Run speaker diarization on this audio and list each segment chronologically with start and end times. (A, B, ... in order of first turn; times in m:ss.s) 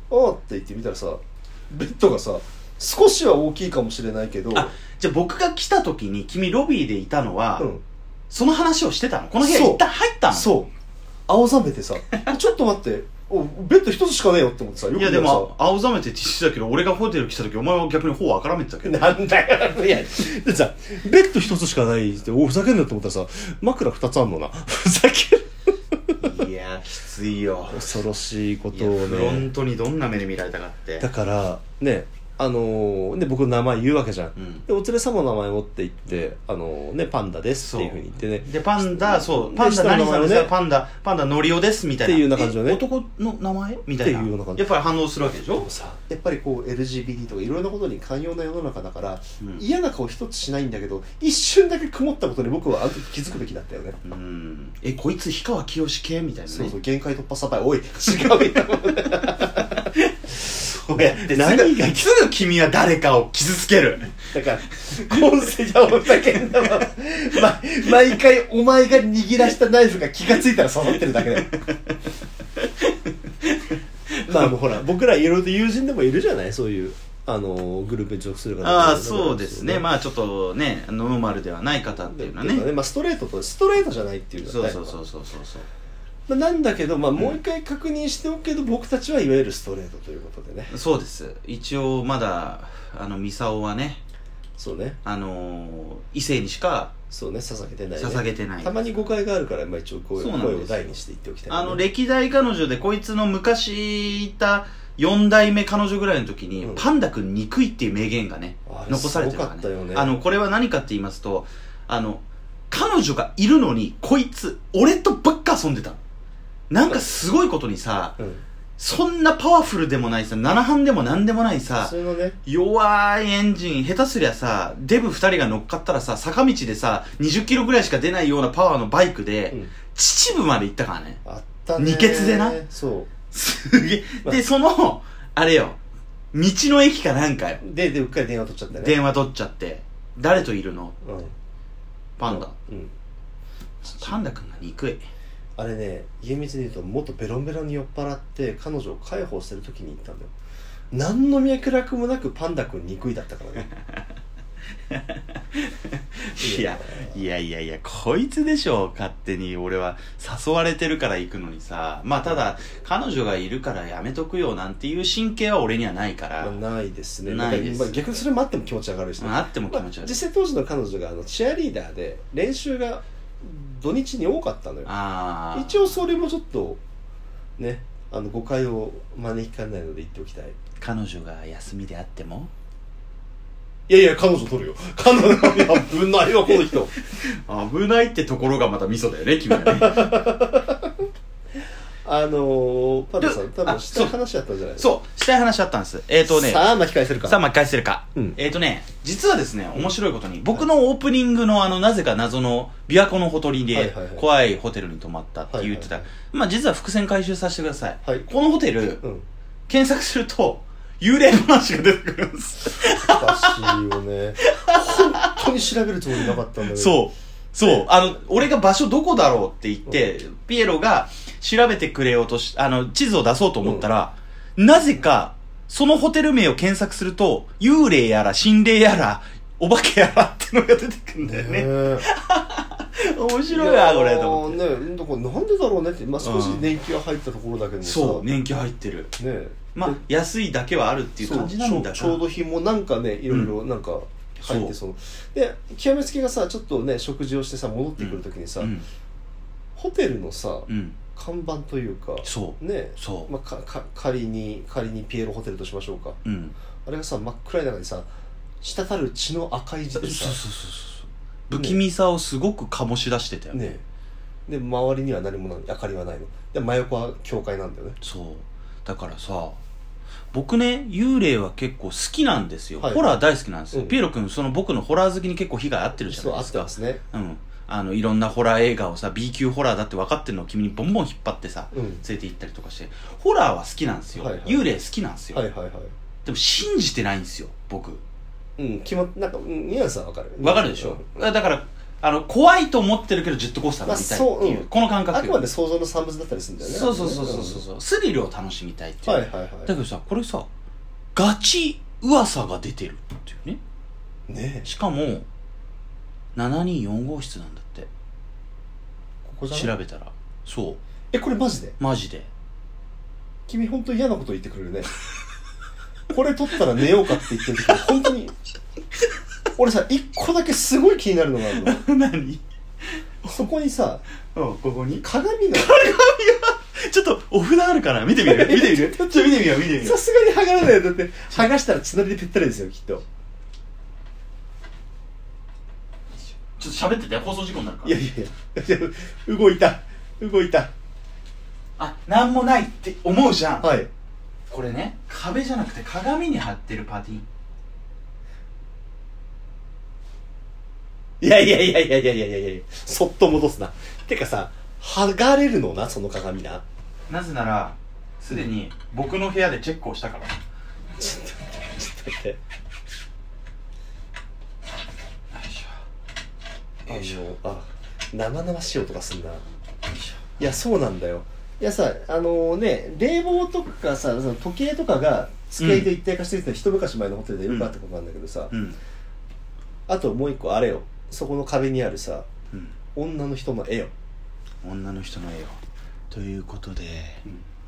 0:00.1-0:04.8 A
0:04.5-0:07.7 B
0:08.3-0:10.6 B
0:09.4-0:10.7 A
0:11.3-0:15.5 A
0:14.9-0:19.2 B
0:18.8-0:26.2 A
0:26.2-0:28.0 B
0:27.7-0:29.5 A
0:28.7-0:31.1 B
0:31.0-0:40.5 A
0:34.4-0:34.6 B
0:37.6-0:45.7 B
0:42.0-0:42.8 A
0:43.9-0:44.7 A
0:45.4-0:54.0 A
0:54.0-0:56.8 B
0:56.5-0:59.8 A
0:58.2-0:58.5 B
0:59.1-1:04.3 B
1:01.3-1:02.1 A
1:04.2-1:11.6 A
1:04.9-1:05.5 B
1:11.2-1:12.0 B
1:12.6-1:14.5 B
1:14.2-1:19.9 A
1:18.6-1:22.7 B
1:21.9-1:25.0 A
1:24.4-1:25.7 B
1:26.3-1:30.7 A
1:27.2-1:27.4 B
1:30.7-1:34.0 B
1:34.6-1:35.0 A
1:35.0-1:37.0 B
1:37.1-1:41.8 A
1:38.0-1:38.8 B
1:40.2-1:40.9 B
1:41.5-1:56.0 B
1:46.6-1:46.9 A
1:48.7-1:50.1 A
1:56.7-1:58.2 B
1:58.2-1:58.4 A
1:58.8-2:02.0 B
2:01.8-2:02.4 A
2:02.5-2:11.2 B
2:09.5-2:09.8 A
2:11.2-2:13.1 A
2:11.8-2:12.6 B
2:13.3-2:15.8 B
2:16.3-2:17.6 B
2:17.6-2:19.0 A
2:18.7-2:21.0 B
2:21.0-2:21.3 A
2:22.2-2:22.6 B
2:22.2-2:22.9 A
2:23.8-2:25.0 B
2:25.6-2:30.3 A
2:30.9-2:33.7 A
2:33.8-2:34.0 B
2:34.9-2:46.6 B
2:36.4-2:37.2 A
2:46.4-2:54.9 A
2:47.2-2:48.1 B
2:49.2-2:50.2 B
2:54.8-2:56.0 B
2:55.5-2:56.8 A
2:57.6-3:00.6 A
3:00.8-3:02.5 B
3:03.9-3:07.0 A
3:05.3-3:05.9 B
3:06.5-3:10.3 B
3:09.5-3:11.0 A
3:12.0-3:14.9 A
3:13.2-3:14.1 B
3:14.8-3:29.0 B
3:16.2-3:17.4 A
3:23.7-3:24.2 A
3:25.5-3:26.1 A
3:28.0-3:28.3 A
3:29.7-3:33.8 B
3:33.0-3:37.1 A
3:34.4-3:35.5 B
3:36.2-3:54.6 B
3:43.6-3:43.9 A
3:51.2-3:52.1 A
3:53.5-3:58.4 A
3:56.2-3:56.8 B
3:57.8-3:59.1 B
3:59.2-4:00.0 A
3:59.8-4:02.3 B
4:01.2-4:08.8 A
4:03.3-4:03.6 B
4:04.4-4:04.8 B
4:08.0-4:08.8 B
4:09.8-4:16.2 A
4:10.7-4:11.0 B
4:12.2-4:13.3 B
4:16.2-4:16.6 B
4:16.8-4:18.1 A
4:18.6-4:20.4 A
4:20.0-4:23.7 B
4:21.6-4:21.8 A
4:23.5-4:23.8 A
4:24.5-4:28.0 A
4:28.0-4:29.6 B
4:30.3-4:45.4 B
4:32.8-4:33.2 A
4:33.7-4:34.0 A
4:36.1-4:37.0 A
4:41.7-4:42.0 A
4:44.2-4:44.7 A
4:45.3-4:45.9 A
4:46.2-4:48.0 B
4:48.6-4:51.0 A
4:50.4-4:55.4 B
4:53.8-4:57.6 A
4:56.6-5:00.5 B
4:59.0-4:59.8 A
5:01.2-5:03.6 B
5:04.3-5:04.7 A
5:04.6-5:05.2 B
5:06.4-5:07.9 B
5:09.3-5:09.7 A
5:09.5-5:10.8 B
5:11.1-5:11.8 A
5:11.8-5:12.3 B
5:13.5-5:14.9 A
5:16.1-5:18.3 A
5:19.6-5:21.8 A
5:21.5-5:22.4 B
5:23.2-5:23.5 B
5:23.2-5:24.0 A
5:24.3-5:30.0 B
5:25.0-5:25.8 A
5:28.2-5:29.3 A
5:29.8-5:33.0 A
5:36.6-5:38.0 B
5:37.8-5:40.7 A
5:41.8-5:43.8 B
5:43.6-5:43.9 A
5:44.5-5:47.2 B
5:51.2-5:56.6 A
5:57.1-6:00.4 B
6:01.0-6:02.4 A
6:05.3-6:05.8 B
6:06.9-6:07.3 B
6:06.9-6:09.4 A
6:10.4-6:18.5 A
6:15.6-6:15.9 B
6:17.5-6:17.7 B
6:18.5-6:18.8 B
6:19.9-6:22.3 A
6:23.0-6:23.9 A
6:24.6-6:27.2 B